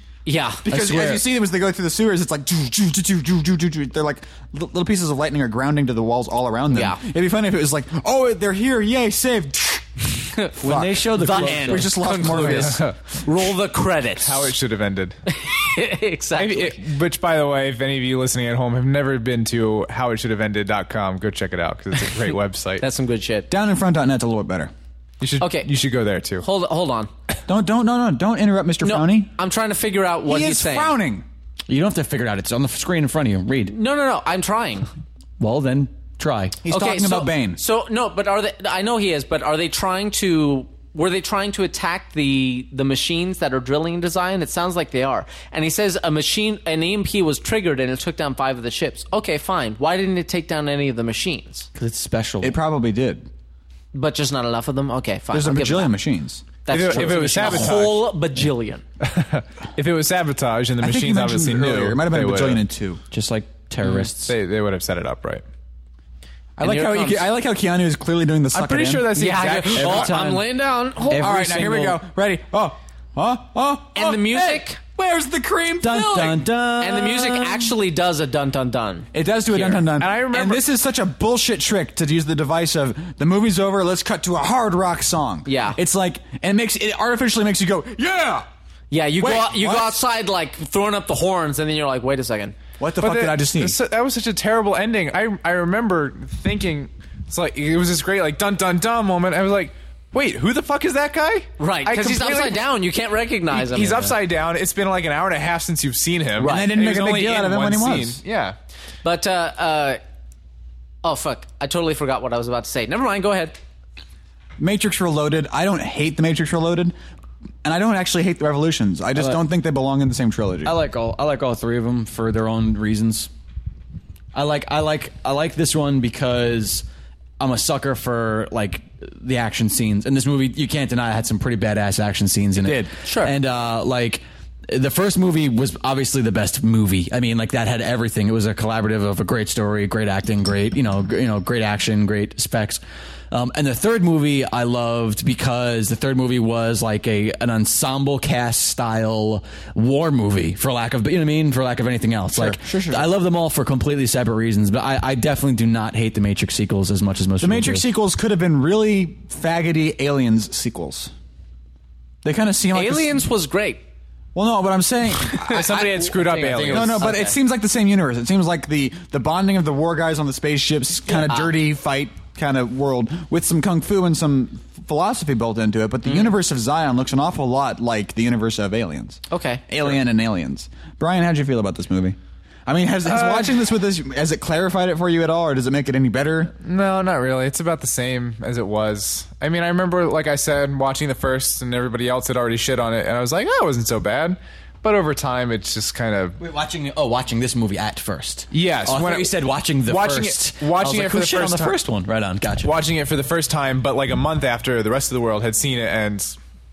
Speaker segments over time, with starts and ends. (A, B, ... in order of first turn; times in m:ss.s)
0:00.2-0:00.6 A
0:00.6-0:10.0 B
0:00.7-0:01.2 C
0:06.7-0:07.0 A
0:10.5-0:12.8 B
0:10.6-0:12.0 C
0:11.2-0:14.5 A
0:12.2-0:12.9 D
0:14.2-0:15.2 D
0:15.3-0:16.8 A
0:16.4-0:22.8 D
0:22.8-0:23.5 A
0:23.5-0:24.7 B
0:25.2-0:26.4 D
0:25.4-0:25.7 A
0:26.4-0:27.1 A
0:27.5-0:29.3 B
0:28.8-0:31.0 A
0:30.3-0:31.2 B
0:31.7-0:33.7 C
0:33.7-0:34.9 A
0:35.4-0:36.6 C
0:36.6-0:37.6 B
0:36.7-0:51.7 A
0:51.7-0:52.6 C
0:52.4-0:53.3 B
0:53.9-0:55.9 A
0:55.3-0:57.6 B
0:56.6-0:58.8 A
0:56.7-0:58.0 D
0:59.0-1:02.6 D
1:00.8-1:03.0 B
1:03.1-1:04.3 C
1:03.8-1:05.4 D
1:06.6-1:09.2 B
1:06.6-1:07.2 A
1:08.5-1:10.1 D
1:09.1-1:11.4 A
1:09.7-1:10.5 C
1:11.0-1:12.0 C
1:11.2-1:16.4 B
1:13.9-1:14.8 A
1:15.8-1:17.6 C
1:16.2-1:19.1 A
1:19.1-1:28.4 B
1:19.5-1:20.6 D
1:25.4-1:25.8 A
1:28.9-1:32.6 A
1:29.2-1:30.0 B
1:32.8-1:33.8 B
1:33.0-1:42.6 D
1:41.6-1:44.1 A
1:43.5-1:48.6 D
1:46.4-1:46.7 A
1:46.4-1:48.2 B
1:49.0-1:50.0 A
1:51.0-1:53.6 A
1:54.6-1:56.9 B
1:57.6-2:00.7 B
1:59.1-1:59.4 C
2:00.6-2:03.3 C
2:04.3-2:06.8 C
2:07.4-2:37.9 C
2:12.6-2:12.9 B
2:13.0-2:13.3 A
2:32.3-2:33.1 B
2:37.4-2:41.1 B
2:42.2-2:43.2 B
2:42.7-2:43.8 A
2:44.3-2:46.1 B
2:45.3-2:47.1 D
2:45.6-2:47.4 A
2:46.3-2:47.1 C
2:46.6-3:06.5 B
2:51.2-2:51.5 A
2:56.0-2:56.4 A
2:59.3-2:59.7 A
3:03.0-3:03.6 D
3:06.6-3:16.4 D
3:16.4-3:22.7 C
3:18.5-3:21.8 D
3:22.6-3:26.4 D